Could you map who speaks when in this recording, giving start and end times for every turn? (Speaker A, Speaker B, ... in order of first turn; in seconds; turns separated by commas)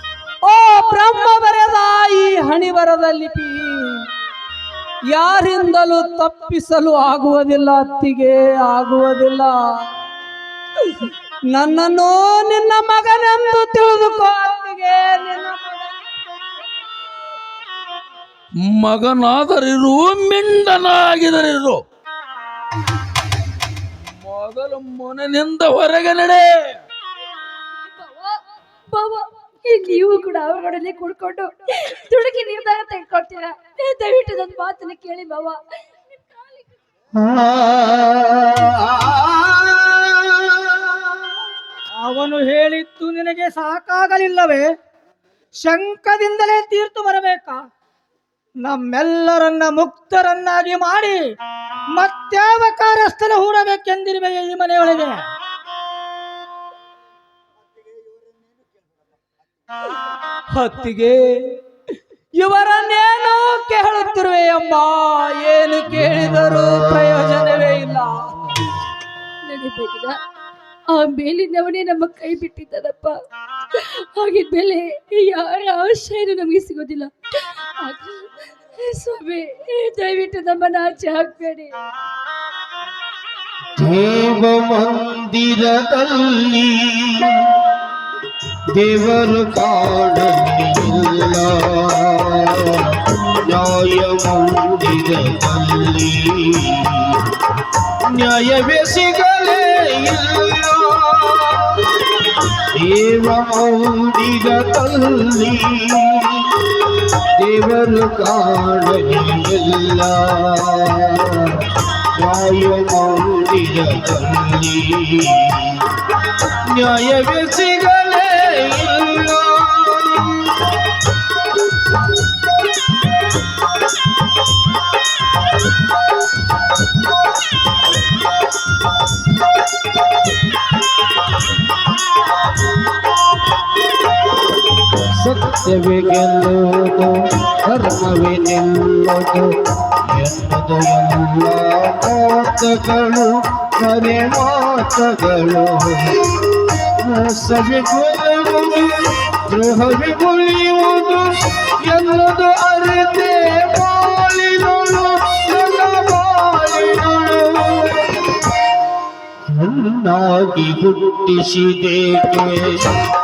Speaker A: 0.4-4.1, Speaker A: 5.1-9.7, Speaker A: 11.0-15.9, Speaker B: 18.6-21.8, Speaker B: 24.1-26.8, Speaker C: 27.9-28.4, Speaker C: 28.9-36.7, Speaker D: 37.6-39.2, Speaker E: 42.0-44.6, Speaker E: 45.6-47.6, Speaker E: 48.6-51.2, Speaker E: 52.0-55.1, Speaker A: 60.5-61.6, Speaker A: 62.4-68.1, Speaker C: 69.5-70.2, Speaker C: 70.9-73.2, Speaker C: 73.7-81.7, Speaker D: 83.8-87.6, Speaker D: 88.8-97.3, Speaker D: 98.1-102.0, Speaker D: 102.8-115.8, Speaker D: 116.7-120.7, Speaker D: 135.1-146.3, Speaker D: 147.0-158.2, Speaker D: 159.6-163.0